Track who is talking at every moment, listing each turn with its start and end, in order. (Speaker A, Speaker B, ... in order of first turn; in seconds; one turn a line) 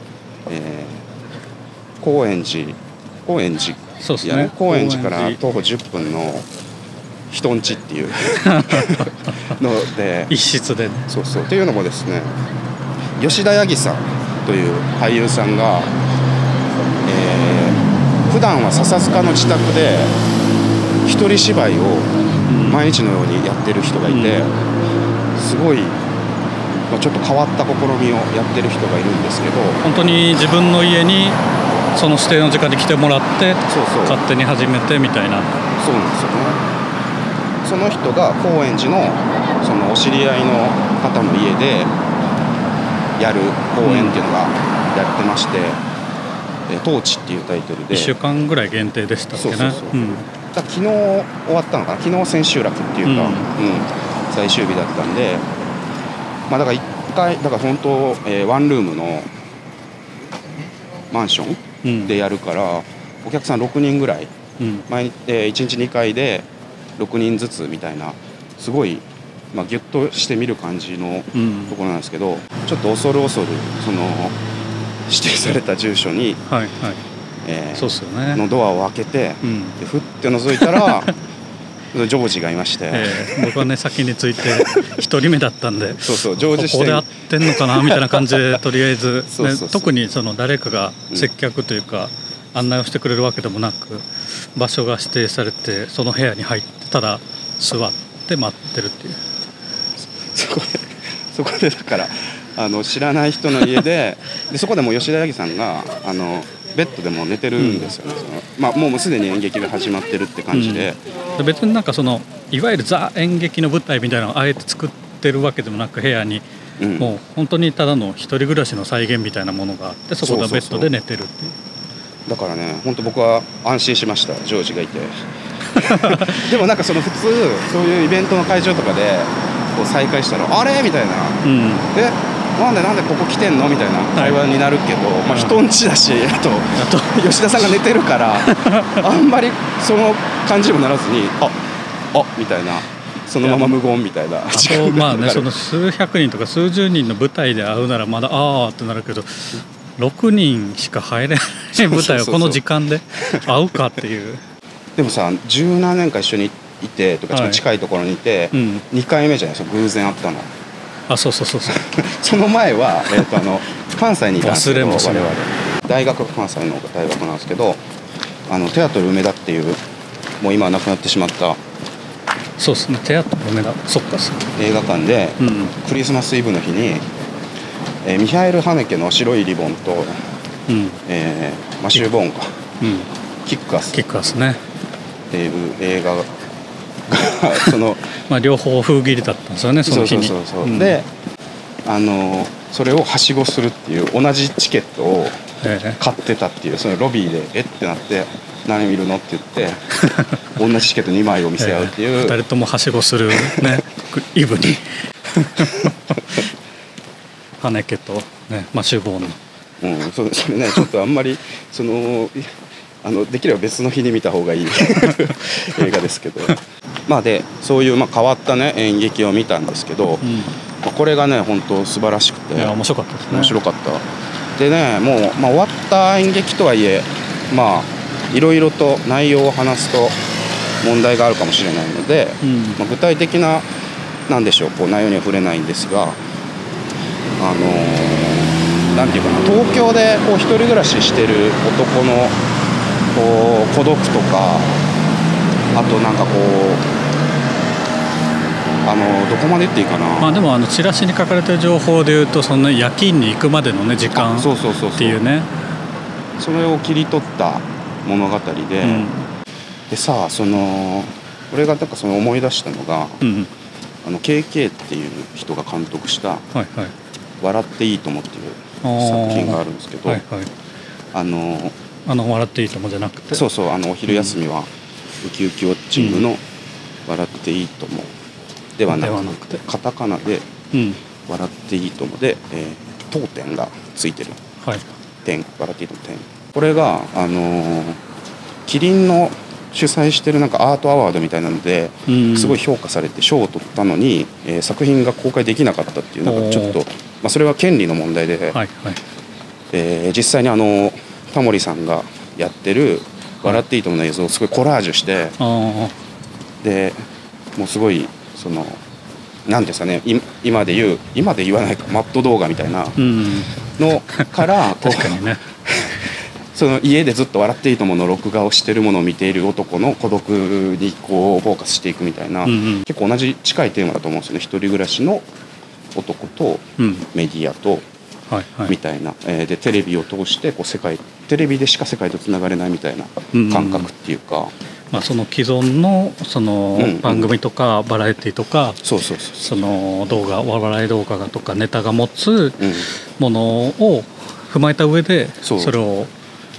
Speaker A: 0.5-1.0
Speaker A: 2.0-6.5
Speaker B: 4.0-5.4
Speaker A: 7.3-10.3
Speaker B: 8.4-9.4
Speaker B: 10.3-11.1
Speaker A: 11.1-12.4
Speaker A: 13.2-16.0
Speaker A: 17.0-20.1
Speaker A: 21.0-24.6
Speaker B: 22.4-22.8
Speaker B: 24.0-24.4
Speaker A: 25.3-26.0
Speaker A: 26.9-29.8
Speaker B: 29.8-31.4
Speaker B: 31.9-35.6
Speaker A: 33.7-34.2
Speaker A: 35.8-36.6
Speaker A: 37.6-41.9
Speaker A: 43.2-45.8
Speaker B: 43.8-44.2
Speaker A: 46.7-48.1
Speaker B: 47.9-50.2
Speaker A: 49.4-55.5
Speaker B: 53.0-53.5
Speaker A: 56.5-59.3
Speaker A: 61.1-64.3
Speaker B: 61.8-62.1
Speaker B: 64.6-64.9
Speaker A: 64.9-74.4
Speaker B: 71.3-71.7
Speaker A: 75.1-76.4
Speaker B: 76.5-77.0
Speaker A: 77.4-81.1
Speaker B: 77.7-78.4
Speaker B: 79.4-79.8
Speaker B: 80.6-81.0
Speaker A: 81.9-83.7
Speaker B: 82.9-99.2
Speaker A: 84.4-84.9
Speaker A: 86.0-88.6
Speaker A: 89.3-89.9
Speaker A: 100.0-111.0
Speaker B: 107.6-107.8
Speaker B: 110.5-116.4
Speaker A: 116.8-117.1
Speaker B: 117.0-121.5
Speaker A: 120.2-120.9
Speaker A: 122.2-125.1
Speaker B: 125.7-126.5
Speaker A: 125.7-131.4
Speaker B: 131.4-131.9
Speaker A: 131.9-141.6
Speaker B: 134.2-134.4
Speaker B: 135.3-135.6
Speaker B: 136.8-137.7
Speaker B: 138.4-139.0
Speaker A: 142.1-145.5
Speaker B: 143.4-143.8
Speaker B: 144.5-154.4
Speaker A: 151.7-152.6
Speaker A: 153.2-153.4
Speaker A: 154.9-160.5
Speaker B: 157.3-157.6
Speaker B: 158.5-158.8
Speaker B: 161.1-161.8
Speaker A: 161.7-167.8
Speaker B: 164.4-165.3
Speaker A: 168.5-169.8
Speaker A: 170.4-171.6
Speaker B: 172.6-174.5
Speaker A: 174.6-177.1
Speaker B: 175.4-175.7
Speaker A: 178.0-180.2
Speaker B: 180.7-181.0
Speaker A: 181.1-182.6
Speaker B: 182.8-183.1
Speaker A: 183.4-184.0
Speaker B: 183.9-184.6
Speaker A: 185.3-186.4
Speaker A: 187.1-188.1
Speaker B: 188.3-191.0
Speaker A: 189.8-191.1
Speaker A: 191.8-195.4
Speaker B: 195.6-196.0
Speaker A: 196.0-199.9
Speaker B: 200.0-200.4
Speaker A: 200.5-202.4
Speaker B: 201.6-206.2
Speaker A: 203.3-203.8
Speaker B: 207.6-209.4
Speaker A: 209.8-220.3
Speaker B: 220.2-220.5
Speaker A: 220.8-222.8
Speaker B: 222.6-223.6
Speaker A: 223.3-224.0
Speaker A: 224.6-230.2
Speaker A: 230.8-233.7
Speaker B: 232.4-232.8
Speaker A: 234.3-236.2
Speaker A: 237.4-242.4
Speaker A: 243.1-244.7
Speaker A: 245.7-246.8
Speaker A: 248.8-250.3
Speaker B: 250.2-255.5
Speaker A: 254.1-255.2
Speaker A: 256.4-259.1
Speaker B: 258.8-259.3
Speaker A: 259.9-263.2
Speaker B: 263.2-263.5
Speaker A: 264.0-266.4
Speaker B: 266.5-266.9
Speaker A: 267.4-270.2
Speaker B: 268.8-270.5
Speaker A: 271.1-271.7
Speaker B: 272.1-273.4
Speaker A: 273.3-274.7
Speaker B: 274.1-274.4
Speaker A: 275.2-276.4
Speaker B: 275.9-276.2
Speaker A: 277.1-278.1
Speaker A: 278.8-280.5
Speaker B: 278.9-279.6
Speaker B: 280.7-281.0
Speaker A: 281.2-284.4
Speaker A: 285.2-288.0
Speaker A: 288.6-298.6
Speaker B: 292.1-292.6
Speaker B: 296.2-296.8
Speaker B: 298.5-299.0
Speaker A: 299.7-305.4
Speaker B: 305.4-305.9
Speaker A: 306.6-307.0
Speaker A: 307.6-308.8
Speaker A: 309.4-313.0
Speaker B: 313.0-313.5
Speaker A: 313.8-325.2
Speaker B: 314.1-315.4
Speaker B: 322.4-322.8
Speaker A: 325.9-327.9
Speaker B: 326.8-327.1
Speaker B: 328.3-328.8
Speaker A: 328.6-334.5
Speaker B: 333.3-333.9
Speaker B: 334.9-338.8
Speaker A: 336.8-337.3
Speaker A: 338.8-339.4
Speaker B: 339.4-346.1
Speaker A: 342.6-342.9
Speaker A: 345.4-345.7